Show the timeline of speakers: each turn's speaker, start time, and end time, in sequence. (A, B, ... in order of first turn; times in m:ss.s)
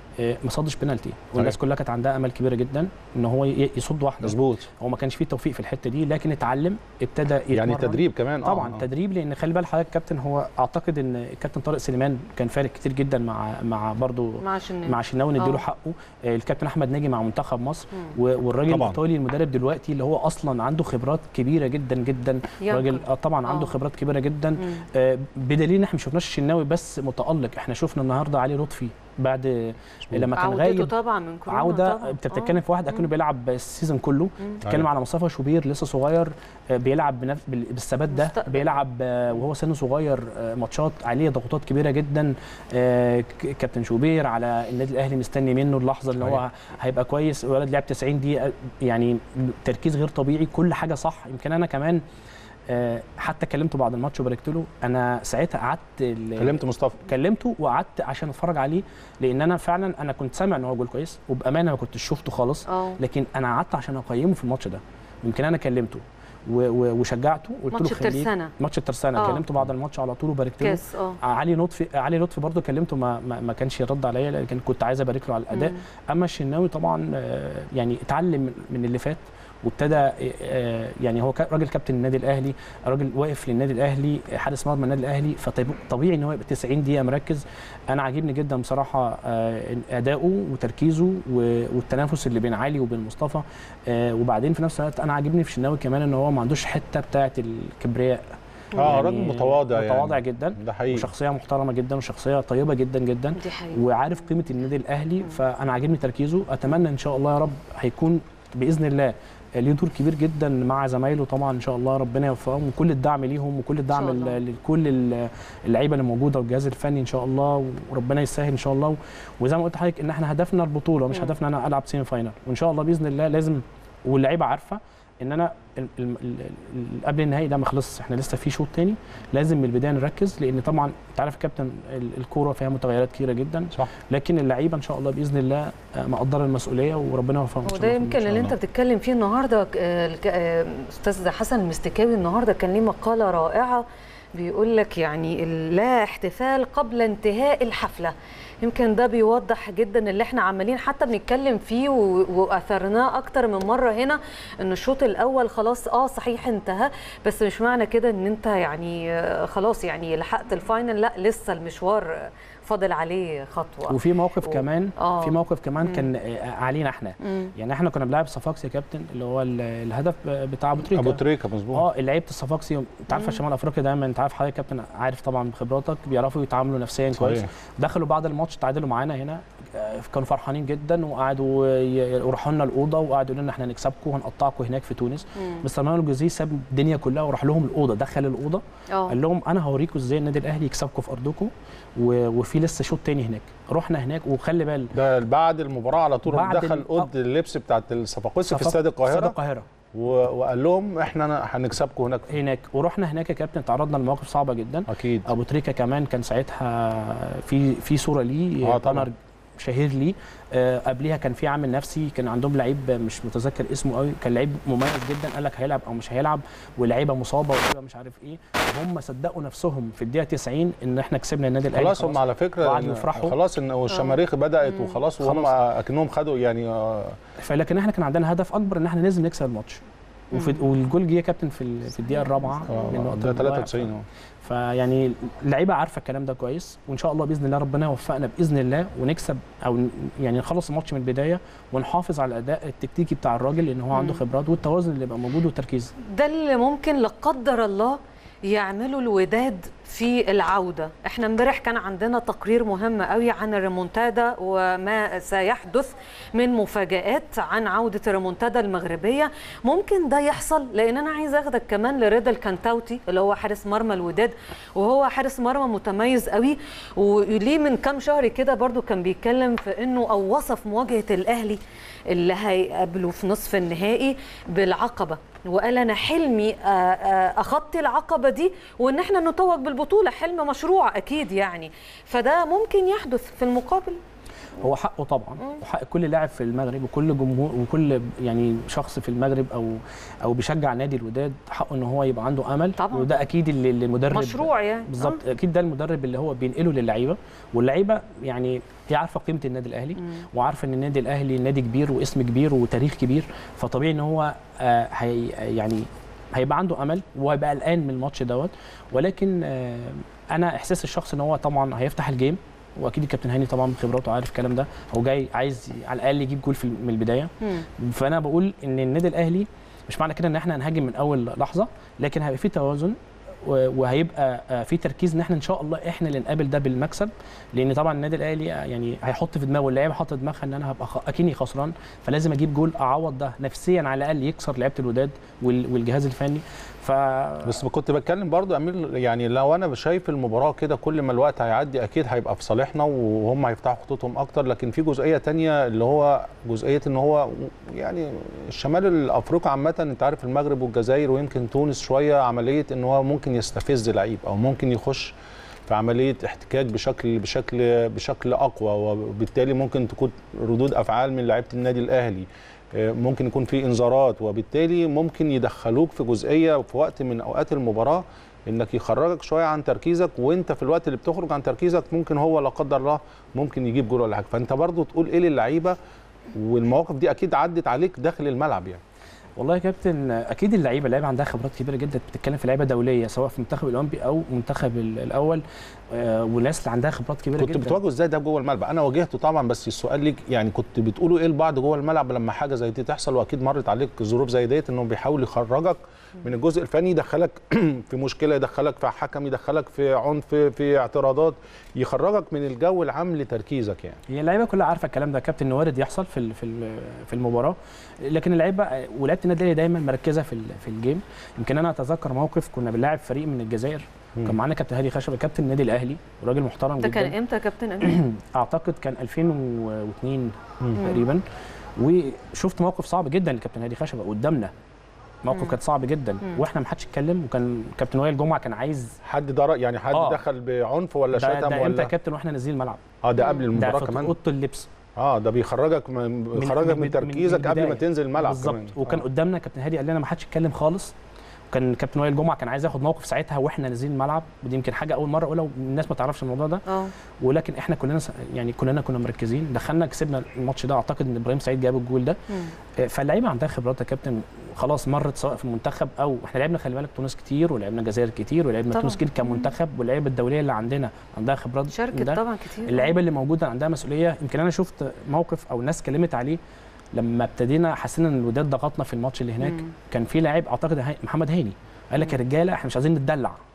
0:00.2-0:30.9 A
0:04.2-0:04.7 B
0:07.5-0:08.8 B
0:14.4-0:15.6 C
0:18.7-0:19.0 B
0:22.6-0:23.7 C
0:24.6-0:24.8 C
0:30.3-0:33.0 C
0:31.5-0:52.0 A
0:38.1-0:38.7 C
0:52.7-2:18.5 A
0:56.4-0:57.0 B
1:02.7-1:03.0 C
1:07.7-1:08.5 C
1:09.2-1:09.4 C
1:10.6-1:11.2 C
1:15.5-1:15.8 C
1:38.7-1:39.0 C
1:38.8-1:41.1 B
1:43.4-1:43.8 C
1:53.9-1:54.4 C
2:17.6-2:46.1 C
2:43.9-2:51.2 A
2:47.2-2:47.5 C
2:50.9-2:51.8 B
2:51.7-3:14.9 A
2:53.1-2:53.4 C
2:57.1-2:57.5 B
3:05.4-3:05.6 C
3:08.9-3:09.2 C
3:14.9-3:19.3 B
3:16.3-3:17.1 A
3:18.5-3:19.7 A
3:19.9-3:22.3 B
3:22.3-3:43.4 A
3:24.9-3:25.3 B
3:28.6-3:29.1 B
3:41.7-3:47.2 B
3:43.9-3:45.0 C
3:45.2-3:45.6 A
3:47.4-3:49.8 A
3:50.3-3:50.6 C
3:50.3-4:05.9 A
3:52.7-3:54.0 B
4:03.9-4:04.2 C
4:06.0-4:44.0 C
4:44.6-5:37.6 A
4:52.8-4:53.1 C
4:54.1-4:55.2 C
5:37.4-5:55.1 B
5:55.7-6:15.8 B
6:16.3-6:18.8 B
6:19.4-6:27.8 A
6:27.4-6:44.0 B
6:44.1-6:57.1 A
6:56.8-6:58.0 C
6:57.8-7:01.2 A
7:01.8-7:04.5 A
7:05.2-7:09.0 A
7:05.3-7:05.5 C
7:09.0-7:11.9 B
7:09.9-7:10.2 A
7:11.1-7:12.8 A
7:13.0-7:14.1 B
7:13.2-7:13.4 C
7:13.5-7:14.7 A
7:15.0-7:19.0 B
7:16.4-7:20.9 A
7:21.5-7:26.6 A
7:26.7-7:26.9 C
7:27.2-7:32.2 A
7:32.3-7:32.5 C
7:32.8-7:46.4 A
7:38.7-7:39.5 C
7:41.7-7:43.0 C
7:46.9-7:53.4 A
7:49.4-7:49.7 C